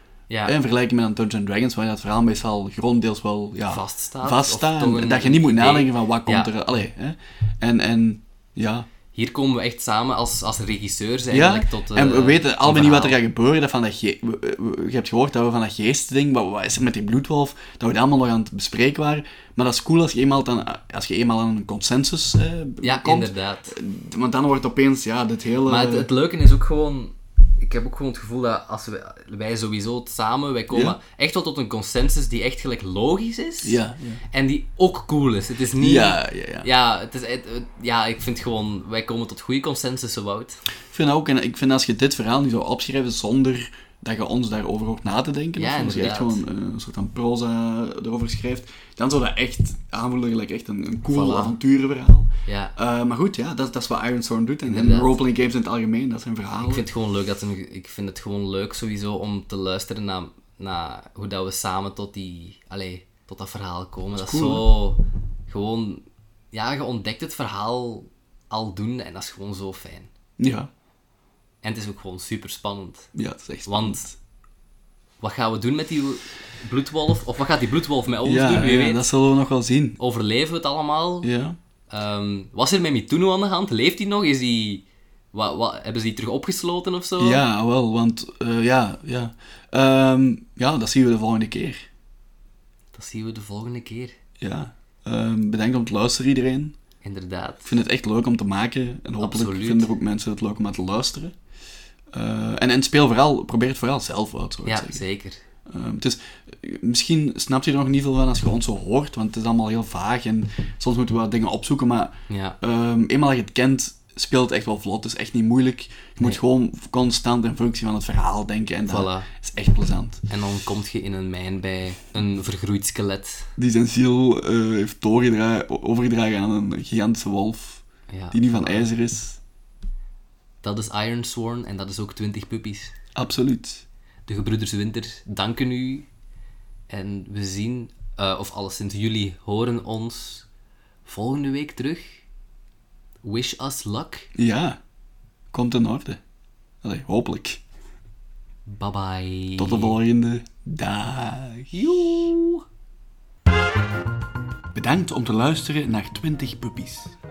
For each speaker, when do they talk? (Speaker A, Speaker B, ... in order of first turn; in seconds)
Speaker A: 0.3-0.6, 3.7-6.5, 9.1-13.2, 22.8-23.8, 25.6-33.8, 34.3-40.6, 45.6-46.4, 51.1-51.5, 52.5-52.7, 54.7-55.2, 56.6-70.1, 71.6-73.1, 73.7-74.0, 75.2-79.0, 80.0-81.3, 81.9-87.4, 92.9-94.1, 97.0-97.7, 99.2-99.9, 104.7-105.4, 112.3-112.6, 118.9-119.3, 120.3-123.5, 128.1-128.9, 130.6-132.9, 134.3-136.1, 136.9-140.4, 141.1-142.2, 143.2-144.3, 148.7-150.0, 151.7-152.6
Speaker B: 0.5-8.9, 11.3-26.1, 30.7-31.0, 33.6-34.2, 35.8-36.7, 40.9-56.9, 64.1-64.7, 70.4-70.7, 73.1-74.2, 78.2-80.0, 81.2-81.6, 87.2-91.8, 94.4-96.8, 97.6-101.3, 102.1-105.0, 105.7-120.2, 123.6-129.4, 133.1-133.8, 144.3-144.8, 145.5-146.2, 146.8-147.6, 149.6-152.3, 154.7-157.1